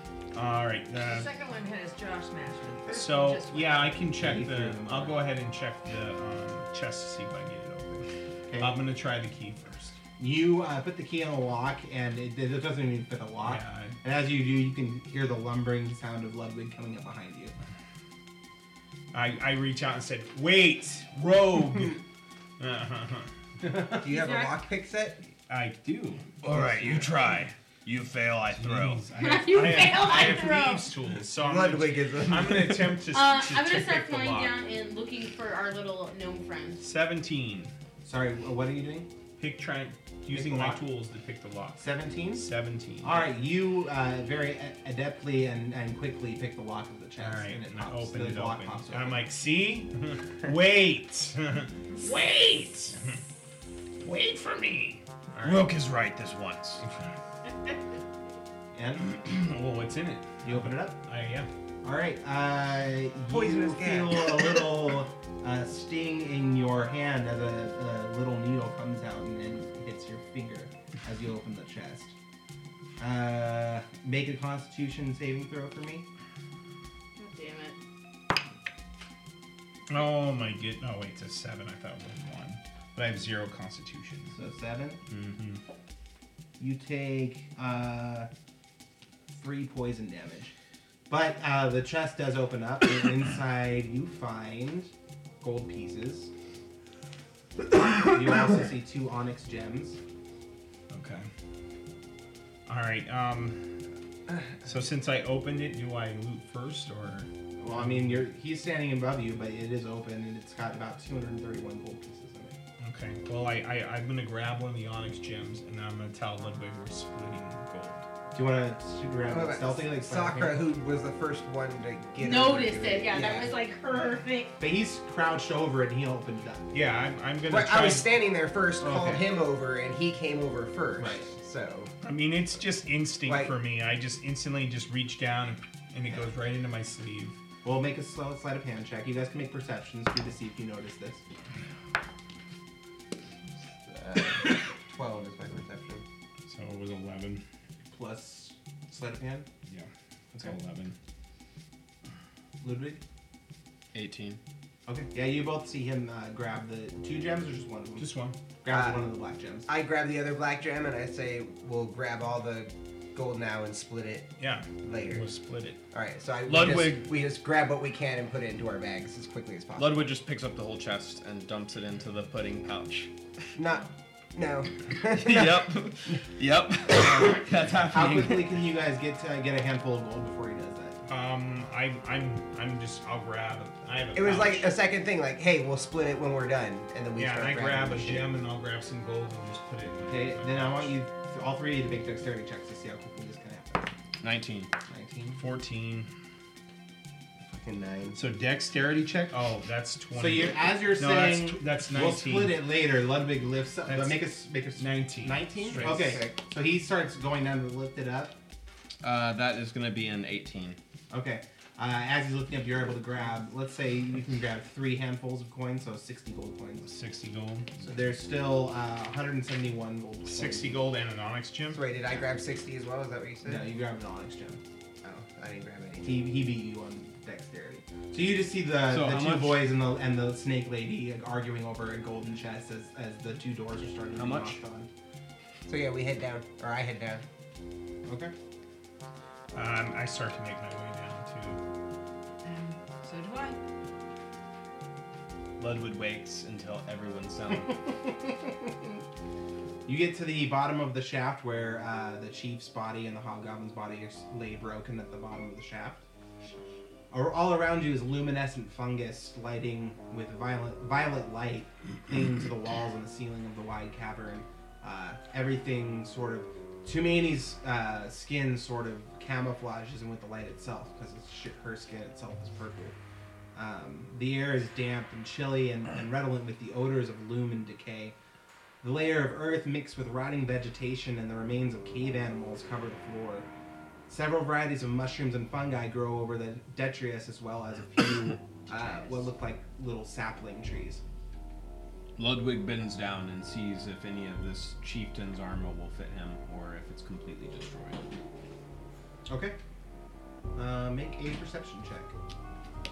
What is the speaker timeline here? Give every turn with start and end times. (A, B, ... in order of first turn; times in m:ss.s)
0:00.3-0:01.3 A
0:00.9-0:04.2 B
0:02.9-0:10.0 A
0:04.2-0:05.2 C
0:08.5-0:08.8 C
0:10.2-0:17.5 C
0:13.4-0:14.0 A
0:19.1-0:22.0 A
0:22.6-0:23.7 A
0:23.9-0:25.3 D
0:24.1-0:24.5 E
0:25.5-0:27.4 A
0:26.4-0:29.0 F
0:28.5-0:34.6 A
0:29.2-0:30.9 E
0:31.3-0:33.0 D
0:33.1-0:36.8 E
0:36.8-0:37.7 A
0:38.0-0:39.1 C
0:39.4-0:43.3 A
0:40.3-0:40.8 C
0:41.8-0:42.5 C
0:43.0-0:49.2 C
0:47.2-0:53.2 A
0:54.0-0:55.7 A
0:55.4-0:56.8 F
0:56.8-0:57.1 A
0:58.7-0:59.0 C
0:59.0-1:01.5 A
1:00.4-1:01.0 C
1:01.8-1:12.1 C
1:03.3-1:04.7 D
1:13.0-1:16.0 C
1:17.2-1:17.8 E
1:19.9-1:24.3 A
1:24.3-1:25.0 C
1:25.1-1:25.6 A
1:26.6-1:28.3 C
1:29.3-1:30.5 C
1:31.1-1:36.3 C
1:38.0-1:40.0 C
1:40.9-1:41.3 A
1:42.6-1:43.7 A
1:44.6-1:47.3 A
1:47.6-1:52.5 C
1:52.8-1:58.0 A
1:58.3-2:00.6 C
1:59.3-2:03.5 D
2:02.2-2:04.6 E
2:04.6-2:06.7 C
2:06.7-2:08.1 A
2:07.5-2:11.9 D
2:08.8-2:09.2 C
2:11.0-2:11.3 C
2:12.0-2:17.4 A
2:13.2-2:13.6 D
2:17.6-2:21.2 C
2:23.8-2:26.0 D
2:26.4-2:27.4 A
2:27.9-2:29.5 C
2:29.7-2:31.0 A
2:32.6-2:33.0 C
2:33.9-2:34.4 F
2:34.9-2:38.1 C
2:38.0-2:38.4 A
2:38.6-2:39.7 C
2:38.7-2:39.0 D
2:39.7-2:45.3 D
2:44.4-2:45.8 A
2:45.9-2:50.0 D
2:46.4-2:47.0 A
2:49.8-2:53.1 F
2:53.6-2:56.2 D
2:54.9-2:58.5 F
2:57.9-3:01.0 C
3:01.1-3:04.7 A
3:04.1-3:08.3 D
3:07.2-3:10.9 A
3:10.1-3:13.9 C
3:14.2-3:14.7 F
3:14.9-3:15.4 C
3:15.3-3:16.1 A
3:17.4-3:18.2 D
3:18.1-3:22.6 A
3:20.1-3:28.4 C
3:23.8-3:24.2 A
3:24.8-3:26.0 A
3:25.7-3:26.4 D
3:29.0-3:30.8 F
3:31.1-3:36.9 C
3:36.8-3:37.9 A
3:37.8-3:40.8 C
3:40.2-3:41.9 A
3:41.7-3:43.6 D
3:43.4-3:44.6 C
3:45.0-3:46.2 D
3:46.0-3:54.9 C
3:48.9-3:49.6 F
3:54.1-3:54.6 F
3:55.7-3:57.2 D
3:58.0-3:58.3 C
3:59.5-4:01.6 A
4:02.4-4:03.6 B
4:05.6-4:07.8 F
4:08.1-4:08.9 C
4:09.8-4:16.0 C
4:17.1-4:33.0 C
4:33.5-4:38.2 C
4:38.8-4:43.5 C
4:44.1-4:51.0 C
4:52.2-4:58.1 F
4:59.3-4:59.6 C
5:00.5-5:02.1 C